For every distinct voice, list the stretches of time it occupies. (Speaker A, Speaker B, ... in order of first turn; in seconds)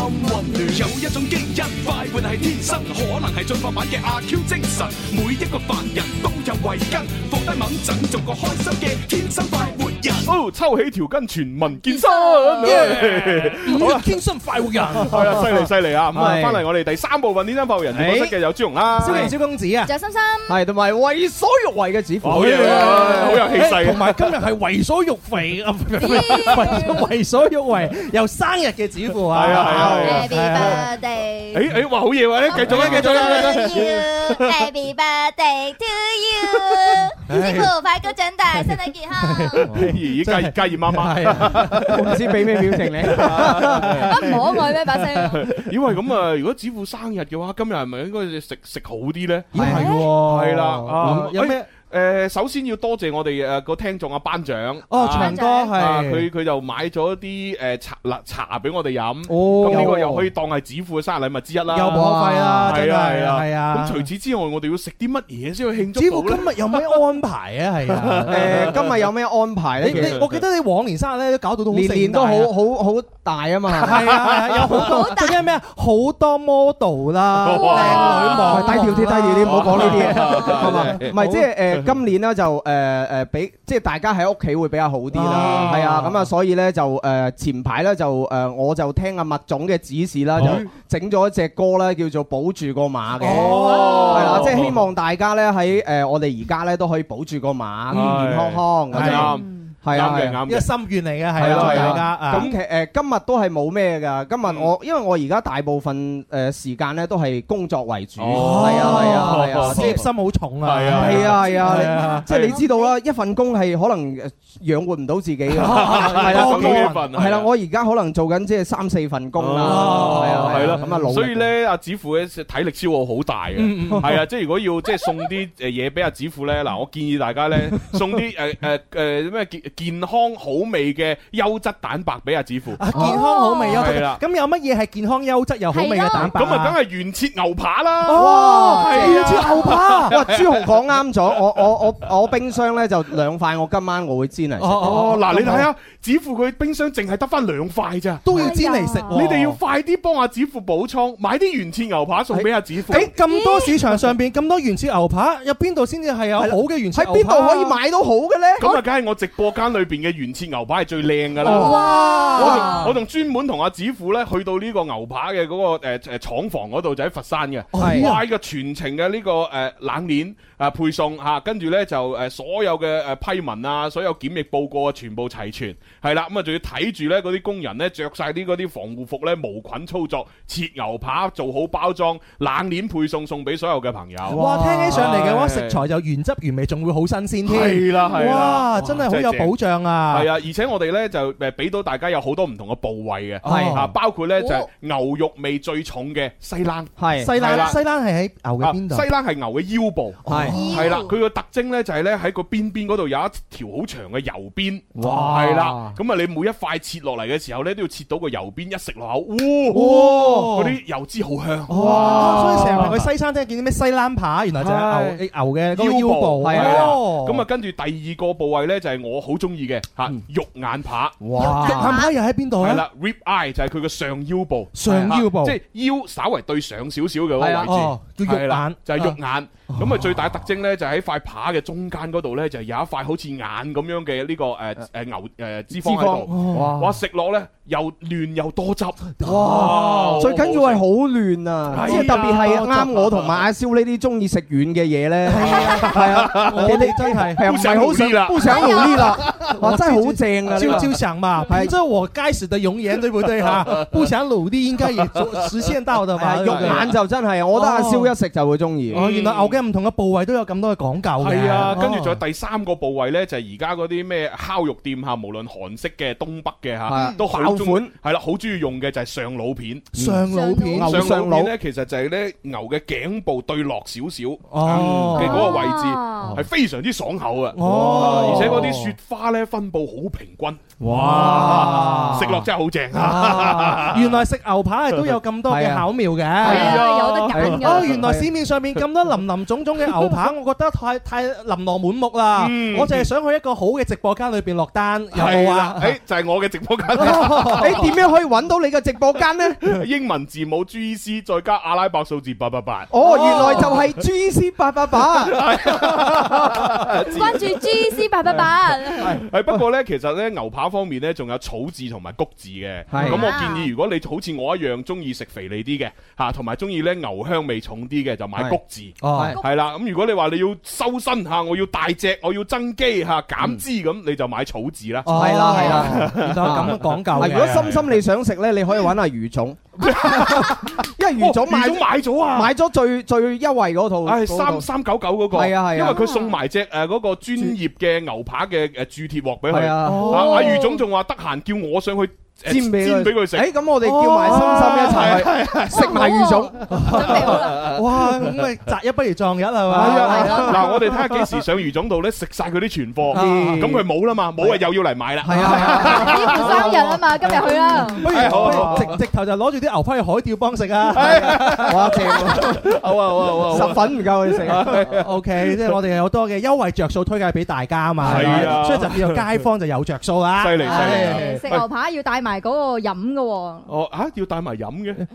Speaker A: 0.5-10.3
Speaker B: 10.2-14.1, 15.0-19.4, 22.2-24.2, 26.4-26.7, 29.3-30.8, 31.5-34.7, 36.5-37.0, 39.7-42.2, 43.1-44.4, 45.3-62.1, 62.6-67.0, 67.9-68.9, 70.0-70.2, 74.0-74.7, 77.4-78.7, 79.5-81.1, 85.3-86.0, 90.4-90.7, 93.2-94.8, 97.9-100.7, 101.4-102.6, 104.5-104.7, 108.2-110.0, 110.6-111.4, 112.3-112.6, 115.6-117.5, 119.4-132.8, 133.7-134.2, 136.2-140.6, 144.8-148.3, 149.1-153.1, 158.6-185.8, 187.5-189.5, 190.1-197.8, 198.6-213.1, 215.7-221.2, 222.6-240.8, 241.7-242.8, 245.4-249.6, 253.4-254.0, 255.1-255.5, 256.5-256.8, 258.9-259.6, 261.2-269.9, 270.8-284.2, 286.4-287.8, 292.4-293.1, 295.1-297.9, 299.6-303.8, 305.3-327.9, 329.8-332.5, 334.1-343.5, 344.3-346.0, 347.1-348.4, 349.7-356.8, 358.0-358.9, 360.9-365.8, 368.0-369.4, 370.4-371.7, 373.7-375.1
Speaker C: 11.8-13.1, 19.9-20.6, 22.6-23.6, 26.0-27.0, 30.0-31.6, 32.5-39.6, 44.0-45.4, 49.6-50.1, 55.1-55.8, 74.7-75.4, 77.6-78.5, 93.8-94.3, 99.4-99.7, 111.4-113.0, 133.0-133.9, 135.7-136.3, 139.0-139.5, 148.3-149.2, 153.2-153.8, 161.4-162.9, 194.4-194.7, 200.6-201.1, 221.4-222.1, 248.4-249.2, 270.3-270.9, 275.1-276.4, 286.4-287.9, 303.1-303.7, 307.1-309.2, 313.0-313.7, 335.9-336.4, 340.1-340.8, 345.7-347.8, 349.9-350.8, 355.7-358.1, 370.6-373.7
Speaker D: 12.6-15.7, 19.0-19.9, 22.3-30.9, 32.5-33.8, 37.3-37.7, 38.5-45.5, 49.5-51.7, 54.9-56.3, 59.6-60.2, 61.7-64.1, 65.9-68.7, 69.8-72.5, 73.8-81.5, 85.1-86.1, 93.2-94.5, 97.9-98.2, 98.9-99.3, 100.5-102.5, 108.3-112.3, 115.5-117.1, 119.6-121.1, 123.5-124.3, 132.8-136.8, 138.1-140.2, 144.6-145.7, 148.2-149.6, 152.9-157.8, 161.4-162.9, 167.7-168.2, 184.3-190.3, 193.4-193.9, 197.2-199.1, 200.3-201.0, 205.0-205.3, 209.7-210.8, 211.7-217.5, 221.3-222.9, 224.7-225.6, 227.6-229.2, 229.7-230.1, 236.3-236.8, 239.2-240.3, 241.8-243.0, 245.3-248.0, 249.4-257.0, 257.5-258.1, 258.9-262.2, 269.9-271.1, 274.5-275.6, 277.5-278.9, 280.8-286.8, 287.6-296.0, 296.9-297.9, 319.0-319.4, 325.1-327.8, 330.4-330.6, 339.9-340.6, 343.8-345.5, 346.7-350.8, 353.1-353.6, 355.3-356.0, 358.0-362.5, 364.5-371.4
Speaker E: 16.1-16.6, 17.9-18.3, 20.5-23.3, 29.7-30.2, 41.9-43.8, 49.6-49.9, 59.3-60.2, 61.9-62.7, 68.3-70.2, 71.7-74.1, 78.4-100.4, 101.4-110.0, 110.9-121.5, 138.1-139.2, 140.1-145.2, 152.3-153.1, 156.4-158.7, 167.8-168.1, 184.3-185.0, 193.4-193.8, 197.0-197.3, 200.3-200.6, 204.9-206.0, 209.9-210.6, 211.7-213.0, 214.6-215.1, 216.4-217.0, 221.2-222.0, 224.8-225.1, 227.4-227.7, 235.7-237.0, 239.4-251.0, 256.2-259.0, 266.9-267.9, 269.9-270.2, 270.7-271.5, 277.6-278.8, 280.8-282.3, 285.5-285.9, 286.5-288.3, 297.6-299.6, 302.9-305.4, 312.9-313.3, 319.1-319.4, 325.1-334.7, 335.3-336.1, 339.5-340.4, 342.5-346.6, 349.7-350.4, 353.1-354.6, 355.2-358.8, 361.3-362.6, 363.5-364.8, 368.1-368.6